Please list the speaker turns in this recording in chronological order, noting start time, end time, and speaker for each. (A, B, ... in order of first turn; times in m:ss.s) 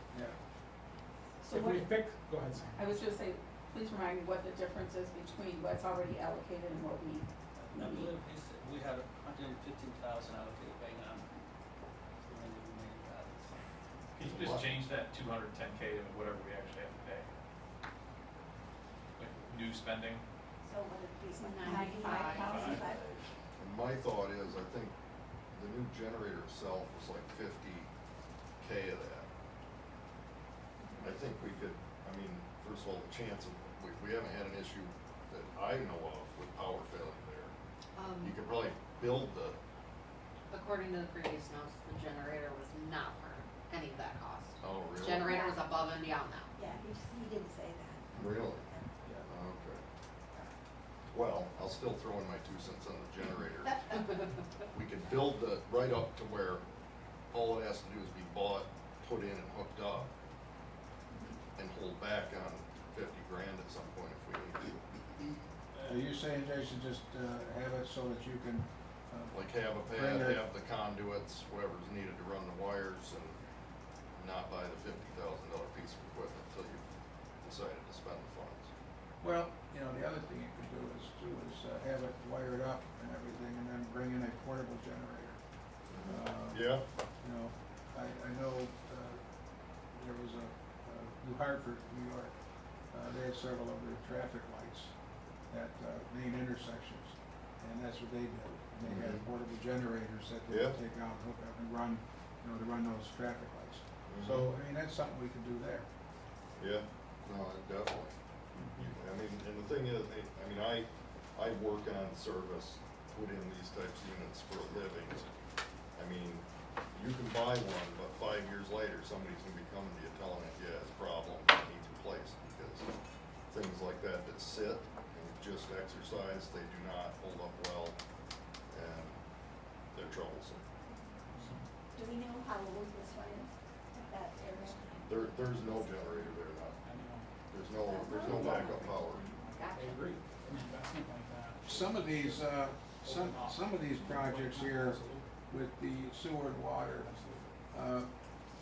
0:01.4-0:01.9 A
0:01.5-0:02.9 B
0:02.8-0:08.1 A
0:07.6-0:11.3 C
0:12.2-0:14.2 C
0:14.2-0:17.3 D
0:14.2-0:14.8 E
0:19.2-0:20.2 D
0:20.6-0:23.1 F
0:21.4-0:22.9 A
0:22.1-0:22.4 G
0:22.5-0:22.9 D
0:22.9-0:23.2 C
0:23.6-0:24.9 E
0:25.5-0:27.9 E
0:28.6-0:29.3 E
0:30.8-0:31.2 F
0:31.0-0:37.5 E
0:38.0-0:38.4 G
0:38.2-0:39.6 E
0:40.5-0:46.5 G
0:44.6-0:45.3 E
0:45.2-0:45.7 F
0:46.6-0:48.9 F
0:48.2-0:48.6 E
0:49.3-0:49.8 E
0:51.1-0:54.0 E
0:53.6-0:54.0 F
0:54.0-0:54.5 G
0:54.7-0:56.6 E
0:57.3-1:00.1 E
1:01.6-1:04.7 E
1:05.8-1:09.4 H
1:09.3-1:13.4 E
1:09.9-1:10.4 H
1:14.2-1:16.8 E
1:17.4-1:18.7 E
1:19.2-1:25.4 H
1:25.9-1:26.8 E
1:26.0-1:26.6 H
1:27.2-1:29.2 H
1:29.9-1:32.4 H
1:32.9-1:34.9 H
1:35.5-1:45.9 H
1:38.8-1:39.3 E
1:40.5-1:40.8 E
1:44.1-1:44.5 E
1:46.6-1:48.1 E
1:48.6-1:48.8 B
1:48.7-1:55.3 E
1:56.0-2:02.9 E
2:03.5-2:08.0 E
2:08.7-2:09.2 E
2:09.9-2:10.6 E
2:11.3-2:11.6 B
2:11.9-2:16.3 F
2:15.1-2:16.8 E
2:16.8-2:17.3 B
2:17.5-2:19.4 E
2:17.8-2:20.0 F
2:18.2-2:25.3 B
2:21.7-2:27.1 H
2:26.9-2:27.5 B
2:27.7-2:28.1 H